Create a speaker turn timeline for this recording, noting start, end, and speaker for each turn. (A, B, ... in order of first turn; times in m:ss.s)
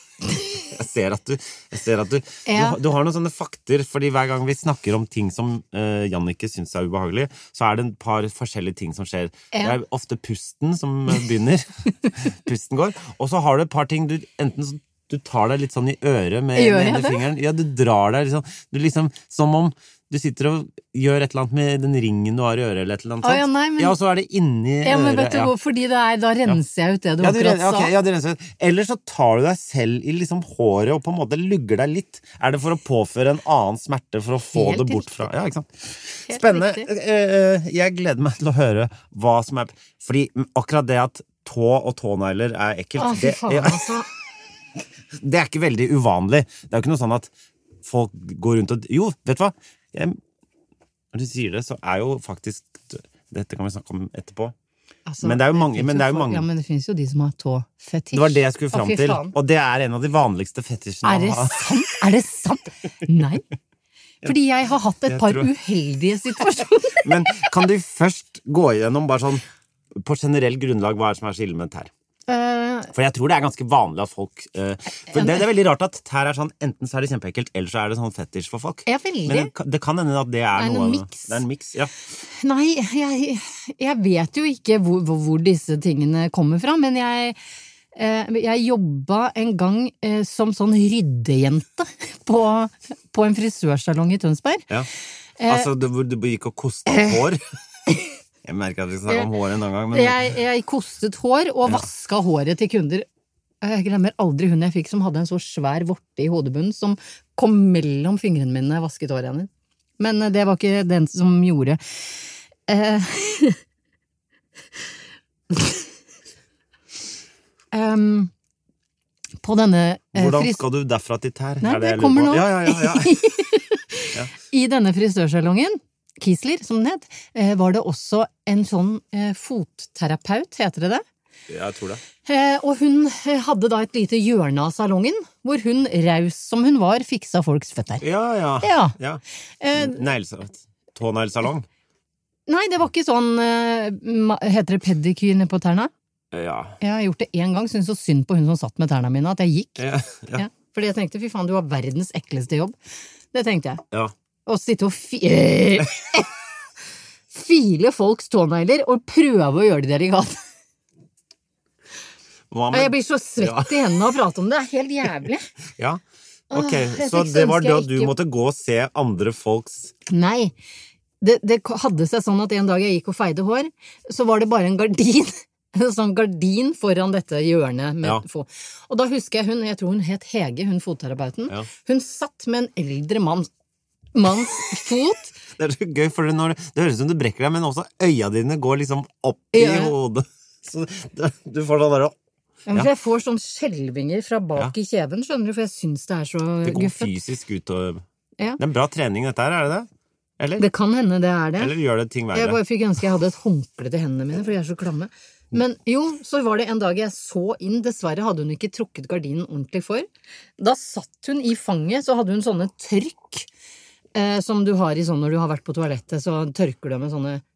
0:00.3-0:00.6 A
0:00.6-0:25.5 B
0:02.4-0:02.8 A
0:09.5-0:09.8 A
0:16.5-0:17.2 A
0:23.2-0:24.0 A
0:24.8-0:27.9 A
0:27.2-0:43.9 B
0:34.5-0:35.3 A
0:36.2-0:36.9 A
0:43.0-0:44.1 A
0:45.1-0:47.3 B
0:47.8-0:50.2 B
0:51.1-0:54.5 B
0:55.0-0:59.3 A
0:55.2-0:56.4 B
0:58.1-1:01.7 B
1:01.0-1:03.4 A
1:04.2-1:07.5 A
1:05.1-1:05.5 B
1:07.0-1:09.4 B
1:09.9-1:11.9 B
1:12.3-1:12.9 A
1:12.9-1:21.9 B
1:15.1-1:15.4 A
1:18.8-1:19.5 A
1:20.5-1:21.4 A
1:22.4-1:27.4 A
1:27.9-1:34.6 A
1:35.4-1:35.7 A
1:35.4-1:37.4 B
1:36.9-1:37.2 A
1:38.4-1:40.4 B
1:39.9-1:43.0 A
1:43.6-1:51.8 A
1:52.7-1:53.6 A
1:57.7-1:58.3 A
1:59.4-2:00.6 A
2:00.1-2:03.3 B
2:01.6-2:11.0 A
2:11.5-2:12.0 B
2:12.2-2:18.0 A
2:18.0-2:19.2 B
2:18.6-2:18.9 A
2:19.6-2:20.0 A
2:19.7-2:21.7 B
2:22.5-2:25.9 A
2:26.3-2:26.8 B
2:26.8-2:32.8 A
2:29.8-2:30.5 B
2:33.3-2:33.8 A
2:34.4-2:36.3 A
2:37.3-2:40.4 A
2:42.5-2:43.9 B
2:42.7-2:45.5 A
2:45.8-2:49.9 B
2:46.5-2:48.1 A
2:50.1-2:50.5 A
2:51.2-3:03.5 A
3:04.1-3:05.3 A
3:05.6-3:12.2 B
3:09.5-3:09.9 A
3:12.7-3:17.1 A
3:16.6-3:18.0 B
3:18.6-3:19.9 B
3:20.4-3:20.7 B
3:20.6-3:21.7 A
3:21.6-3:22.6 B
3:22.3-3:30.1 A
3:30.6-3:33.5 A
3:34.1-3:37.4 A